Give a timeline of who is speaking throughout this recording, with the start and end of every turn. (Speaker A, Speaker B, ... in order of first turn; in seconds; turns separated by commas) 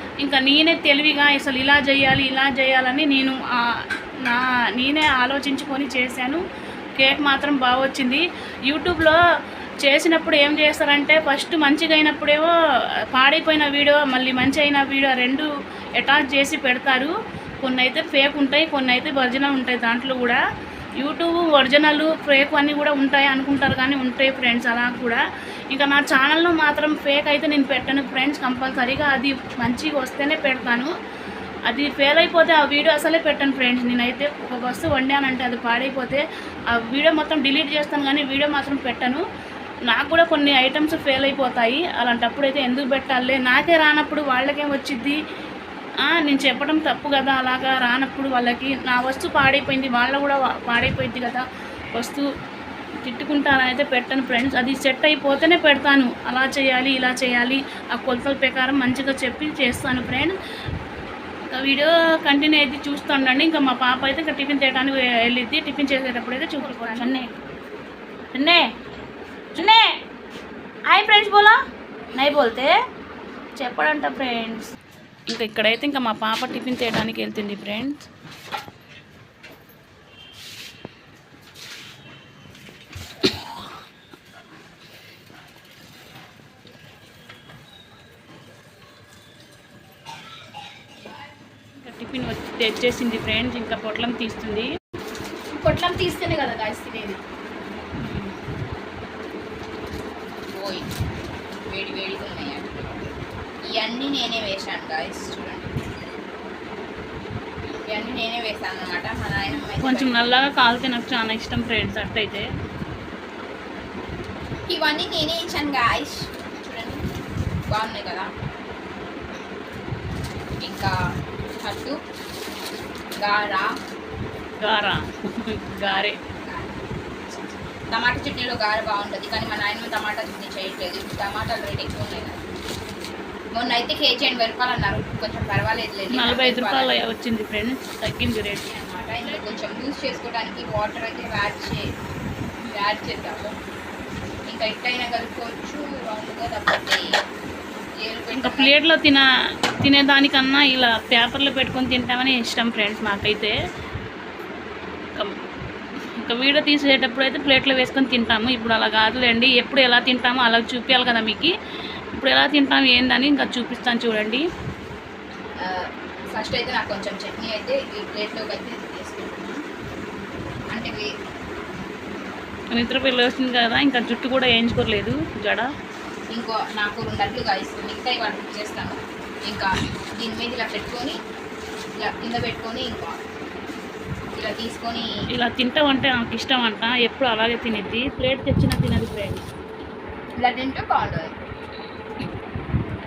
Speaker A: 0.2-3.4, Speaker A: 4.2-6.4, Speaker A: 7.0-9.2, Speaker A: 9.8-12.5, Speaker A: 13.1-20.4, Speaker A: 21.0-25.2, Speaker A: 25.7-30.9, Speaker A: 31.7-39.2, Speaker A: 39.9-45.2, Speaker A: 46.1-52.2, Speaker A: 53.0-60.3, Speaker A: 61.5-67.3, Speaker B: 66.6-67.2, Speaker A: 68.3-68.7, Speaker A: 69.5-69.9, Speaker A: 70.9-71.6, Speaker A: 72.2-72.7, Speaker A: 73.6-74.7, Speaker A: 75.3-78.1, Speaker A: 91.8-94.7, Speaker B: 95.6-97.2, Speaker A: 98.0-98.3, Speaker B: 100.5-100.9, Speaker B: 101.7-103.1, Speaker B: 103.7-105.7, Speaker B: 107.9-110.2, Speaker A: 109.8-112.5, Speaker B: 114.7-117.0, Speaker B: 117.7-118.3, Speaker B: 120.6-120.9, Speaker B: 121.6-122.0, Speaker B: 123.2-123.7, Speaker A: 124.6-126.2, Speaker B: 126.4-132.4, Speaker B: 133.5-136.9, Speaker A: 136.2-138.7, Speaker B: 138.7-141.8, Speaker A: 139.2-139.6, Speaker B: 142.7-143.5, Speaker B: 144.5-147.1, Speaker B: 148.0-148.7, Speaker A: 148.3-149.3, Speaker A: 149.8-153.6, Speaker A: 156.2-161.5, Speaker A: 162.1-164.4, Speaker B: 165.6-169.6, Speaker B: 170.7-171.1, Speaker A: 172.7-175.7, Speaker B: 176.3-181.2, Speaker B: 182.0-183.2, Speaker B: 184.3-185.1, Speaker A: 185.3-189.5, Speaker B: 190.4-191.3